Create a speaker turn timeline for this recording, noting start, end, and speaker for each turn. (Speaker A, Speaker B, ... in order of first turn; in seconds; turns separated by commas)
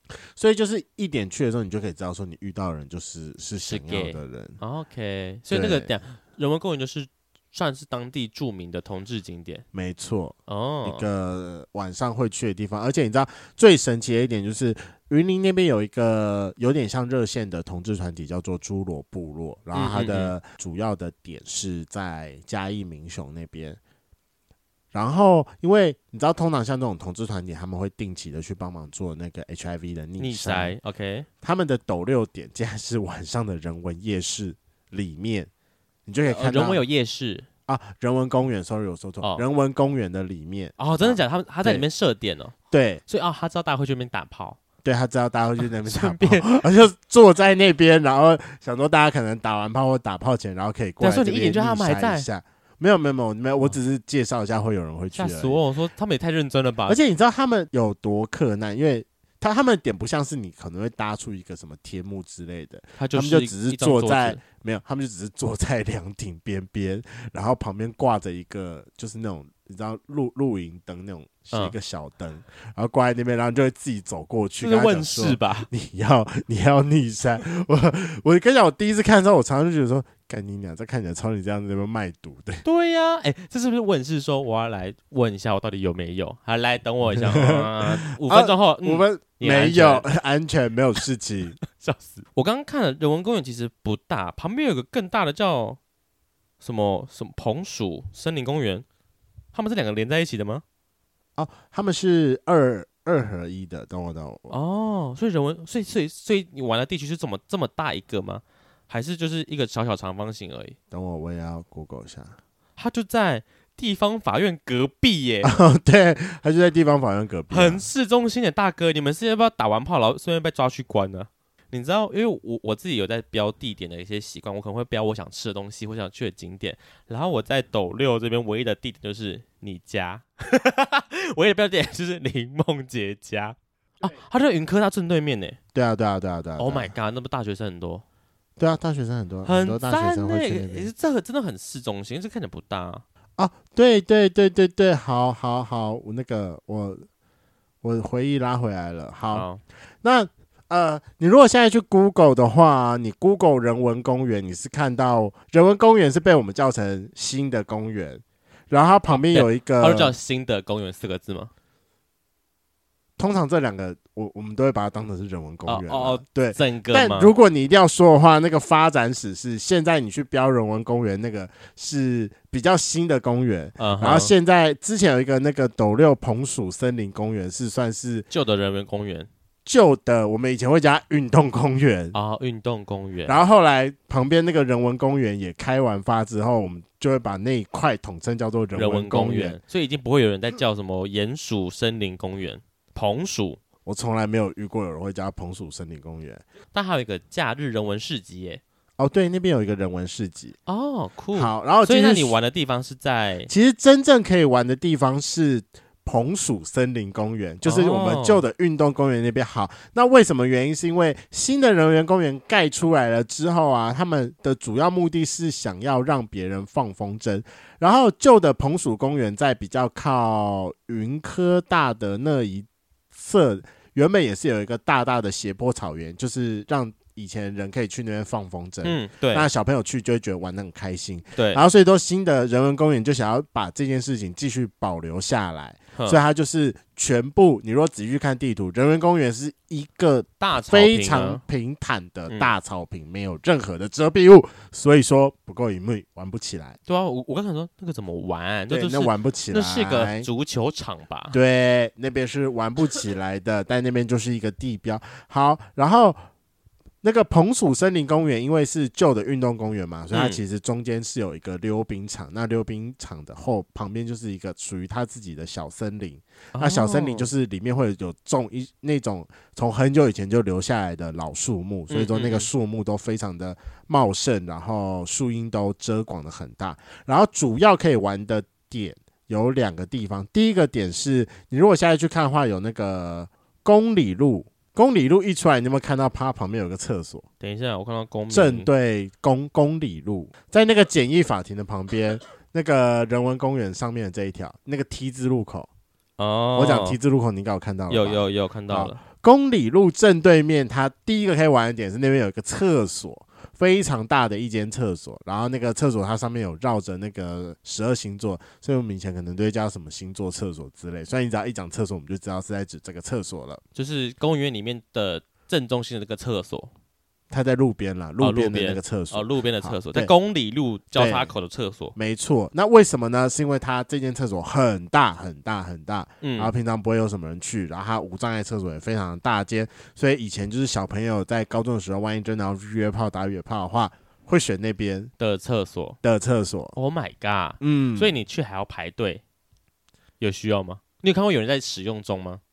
Speaker A: 0.3-4.6, Speaker B: 3.6-9.6, Speaker A: 5.5-5.9, Speaker A: 9.7-23.8, Speaker B: 10.5-11.1, Speaker B: 19.7-20.3, Speaker A: 24.9-30.7, Speaker B: 30.2-31.3, Speaker A: 31.4-35.5, Speaker A: 36.0-36.8, Speaker B: 36.2-37.5, Speaker A: 37.7-41.8, Speaker B: 40.8-42.5, Speaker A: 42.7-43.0, Speaker B: 43.1-44.6, Speaker A: 44.8-55.6, Speaker B: 45.6-46.6, Speaker B: 51.0-52.3, Speaker B: 55.1-57.0, Speaker A: 56.9-82.6, Speaker B: 63.0-64.4, Speaker B: 74.6-75.7, Speaker B: 82.6-90.0, Speaker A: 87.2-91.6, Speaker B: 91.6-95.8, Speaker B: 96.6-98.8, Speaker B: 99.5-100.6, Speaker A: 101.4-104.5, Speaker B: 104.5-110.8, Speaker A: 110.9-112.4, Speaker B: 112.8-115.5, Speaker A: 115.4-117.8, Speaker B: 117.5-135.6, Speaker A: 135.7-136.9, Speaker B: 136.6-138.0, Speaker A: 138.6-140.9, Speaker B: 139.4-143.0, Speaker A: 143.4-147.1, Speaker A: 147.8-149.5, Speaker B: 149.3-149.6, Speaker A: 150.0-160.1, Speaker B: 159.1-161.5, Speaker A: 163.2-178.3, Speaker B: 165.7-167.3, Speaker B: 173.8-174.3, Speaker B: 178.3-179.3, Speaker A: 179.6-182.2, Speaker B: 182.1-183.4, Speaker A: 183.2-189.6, Speaker B: 188.7-193.6, Speaker A: 193.8-196.4, Speaker B: 196.7-198.6, Speaker A: 199.0-200.6, Speaker B: 200.7-203.5, Speaker A: 201.3-202.3, Speaker A: 203.5-246.8, Speaker B: 207.6-208.4, Speaker B: 228.8-229.5, Speaker B: 231.3-231.6, Speaker B: 235.9-236.2, Speaker B: 240.4-241.4, Speaker B: 246.9-251.4, Speaker A: 248.7-250.3, Speaker A: 251.3-256.2, Speaker A: 257.0-287.2, Speaker B: 260.1-260.4, Speaker B: 266.5-267.3, Speaker B: 271.9-272.5, Speaker B: 287.4-288.7, Speaker A: 288.3-295.7, Speaker B: 296.2-297.0, Speaker A: 296.6-313.6, Speaker B: 297.9-299.0, Speaker B: 313.7-316.7, Speaker A: 317.3-320.1, Speaker B: 318.2-321.9, Speaker A: 320.9-321.3, Speaker A: 321.9-335.1, Speaker B: 326.2-326.5, Speaker B: 335.2-336.0, Speaker A: 336.0-336.7, Speaker B: 336.8-339.2, Speaker A: 337.6-338.1, Speaker B: 340.2-342.4